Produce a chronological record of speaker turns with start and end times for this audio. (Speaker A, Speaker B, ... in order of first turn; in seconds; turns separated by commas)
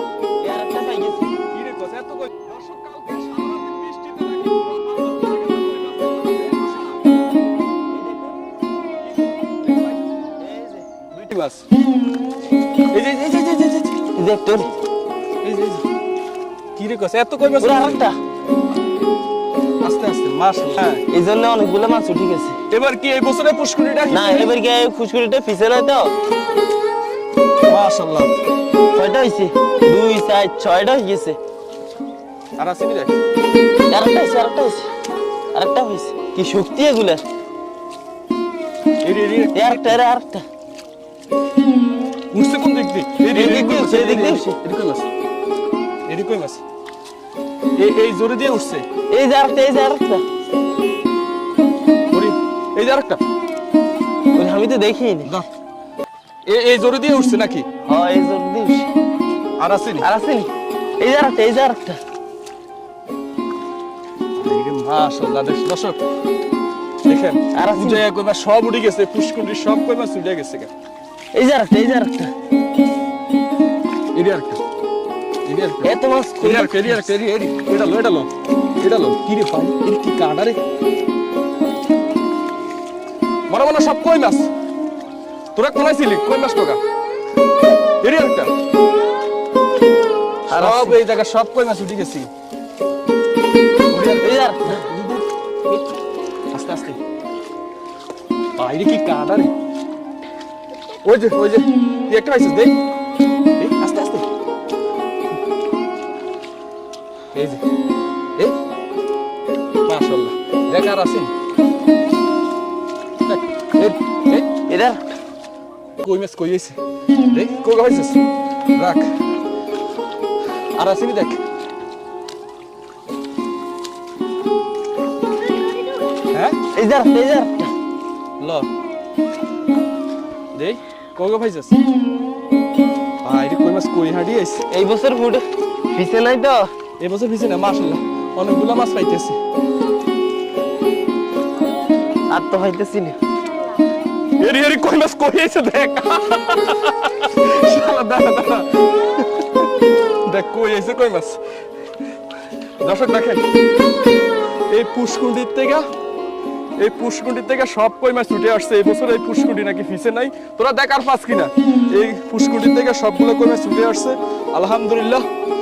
Speaker A: 0.4-1.4, Speaker B: 1.5-7.1, Speaker A: 7.9-8.5, Speaker B: 9.0-10.0, Speaker A: 10.4-10.9, Speaker B: 11.1-11.6, Speaker B: 12.9-14.0, Speaker A: 14.2-14.7, Speaker B: 15.4-15.8, Speaker B: 16.8-18.0, Speaker A: 17.6-18.2, Speaker B: 19.8-21.0, Speaker A: 21.1-22.6, Speaker B: 22.7-24.5, Speaker A: 24.1-26.1, Speaker B: 27.6-28.3, Speaker A: 28.9-31.4, Speaker B: 32.6-33.2, Speaker A: 33.9-34.9, Speaker A: 35.5-37.2, Speaker B: 39.0-40.0, Speaker A: 39.5-40.4, Speaker B: 42.3-45.1, Speaker A: 43.3-44.6, Speaker B: 46.0-46.6, Speaker B: 47.8-48.8, Speaker A: 49.1-50.2, Speaker B: 52.1-53.2, Speaker A: 54.3-55.4, Speaker B: 56.5-57.7, Speaker A: 57.8-58.9, Speaker B: 59.6-60.1, Speaker A: 60.0-60.5, Speaker A: 61.0-62.0, Speaker B: 64.3-66.0, Speaker B: 67.0-70.7, Speaker A: 67.5-68.0, Speaker A: 71.3-72.3, Speaker B: 74.1-74.6, Speaker B: 75.5-80.6, Speaker A: 75.8-77.1, Speaker B: 83.5-84.5, Speaker B: 85.5-86.8, Speaker B: 88.0-88.5, Speaker A: 90.5-91.0, Speaker B: 90.5-92.3, Speaker B: 93.9-95.2, Speaker A: 94.2-94.8, Speaker B: 96.5-97.0, Speaker B: 98.5-99.5, Speaker B: 101.0-102.8, Speaker B: 103.6-104.2, Speaker B: 107.3-107.6, Speaker B: 109.8-111.3, Speaker B: 113.2-114.5, Speaker A: 114.7-115.0, Speaker B: 116.0-116.8, Speaker B: 117.3-118.2, Speaker B: 118.7-119.1, Speaker B: 120.7-121.4, Speaker B: 126.3-126.6, Speaker A: 126.7-127.7, Speaker B: 128.4-128.7, Speaker B: 130.5-131.8, Speaker B: 133.2-134.7, Speaker A: 134.7-136.7, Speaker B: 137.0-139.4, Speaker A: 142.3-143.2, Speaker B: 144.4-149.7, Speaker B: 150.2-151.4, Speaker B: 152.8-153.4, Speaker B: 154.7-155.8, Speaker B: 156.8-165.2